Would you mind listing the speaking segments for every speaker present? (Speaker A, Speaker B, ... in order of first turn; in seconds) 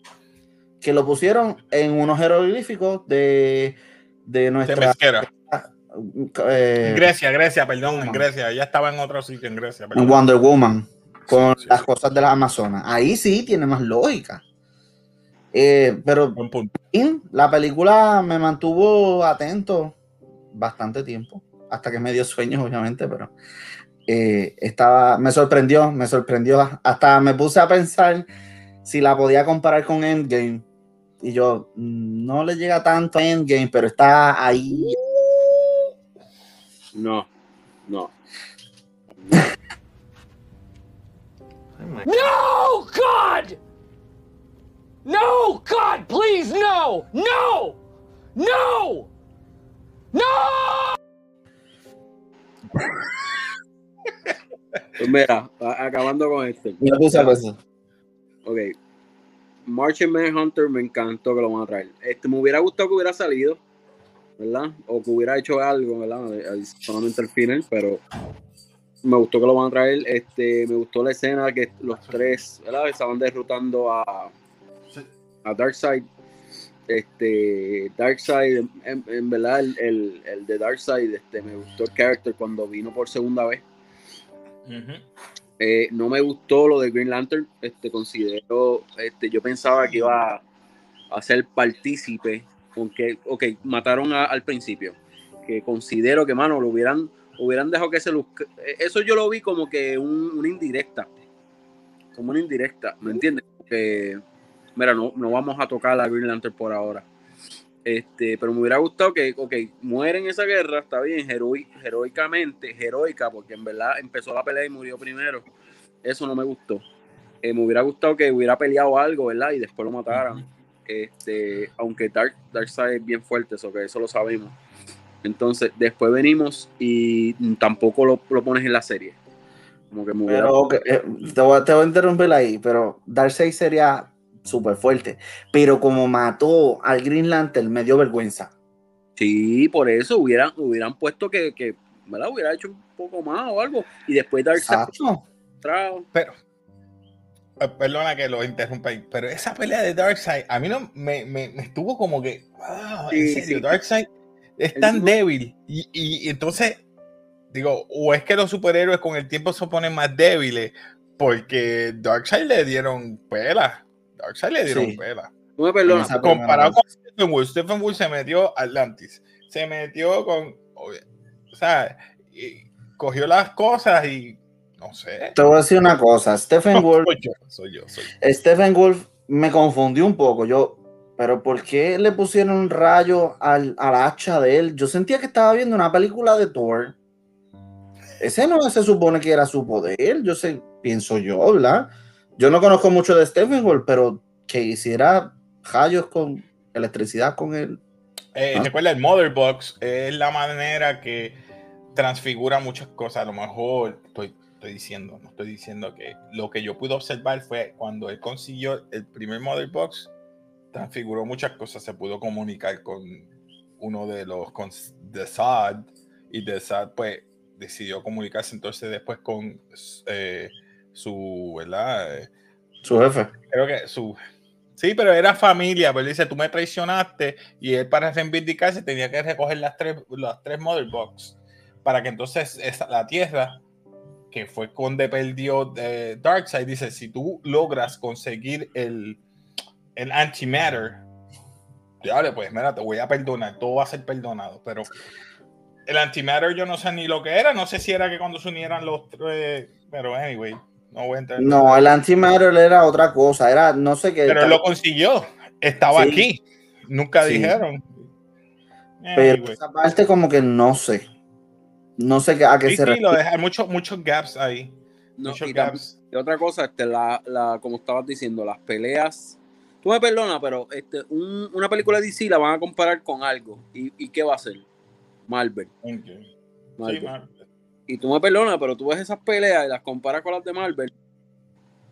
Speaker A: 0.8-7.1, 7.8-8.2, 9.9-14.4, 15.5-16.4, 16.9-20.0, 20.5-23.3, 24.1-28.3, 28.9-30.6, 31.2-35.0, 56.8-57.6, 130.3-138.5, 144.6-145.2, 164.7-165.0, 165.9-166.8, 175.4-177.1, 178.2-187.0, 188.2-197.8, 222.8-223.3, 251.4-254.6, 255.9-256.3, 257.2-257.6, 259.2-261.1, 262.0-263.2
Speaker B: 4.7-5.3, 6.8-10.2, 11.3-11.9, 16.4-16.7, 34.8-35.8, 52.8-53.1, 71.9-72.4, 84.7-85.0, 89.8-90.1, 120.1-120.4, 147.6-154.1, 154.6-156.8, 157.5-165.3, 166.2-171.0, 171.5-175.4, 176.7-178.2, 198.3-201.4, 201.9-210.1, 210.7-222.3, 223.5-224.2, 224.8-233.6, 234.3-239.2, 240.0-241.1, 242.0-244.9, 245.9-251.9, 254.3-258.1, 259.0-259.6, 262.7-265.9, 275.8-276.3, 276.8-277.3
Speaker C: 37.0-37.3, 37.9-38.1, 55.0-57.3, 58.5-58.8, 59.7-63.6, 64.4-68.0, 69.0-74.3, 75.5-76.1, 76.9-83.6, 85.6-90.4, 91.1-101.1, 102.1-104.2, 104.8-107.1, 107.8-115.5, 116.0-116.8, 117.4-124.6, 125.2-129.2, 129.9-130.6, 139.2-144.9, 145.6-146.1, 153.1-153.7, 154.8-155.1, 165.6-166.2, 265.2-274.7, 275.3-275.7, 276.8-277.1, 277.9-280.9
Speaker D: 42.0-43.6, 45.0-47.8, 48.4-49.1, 50.1-51.0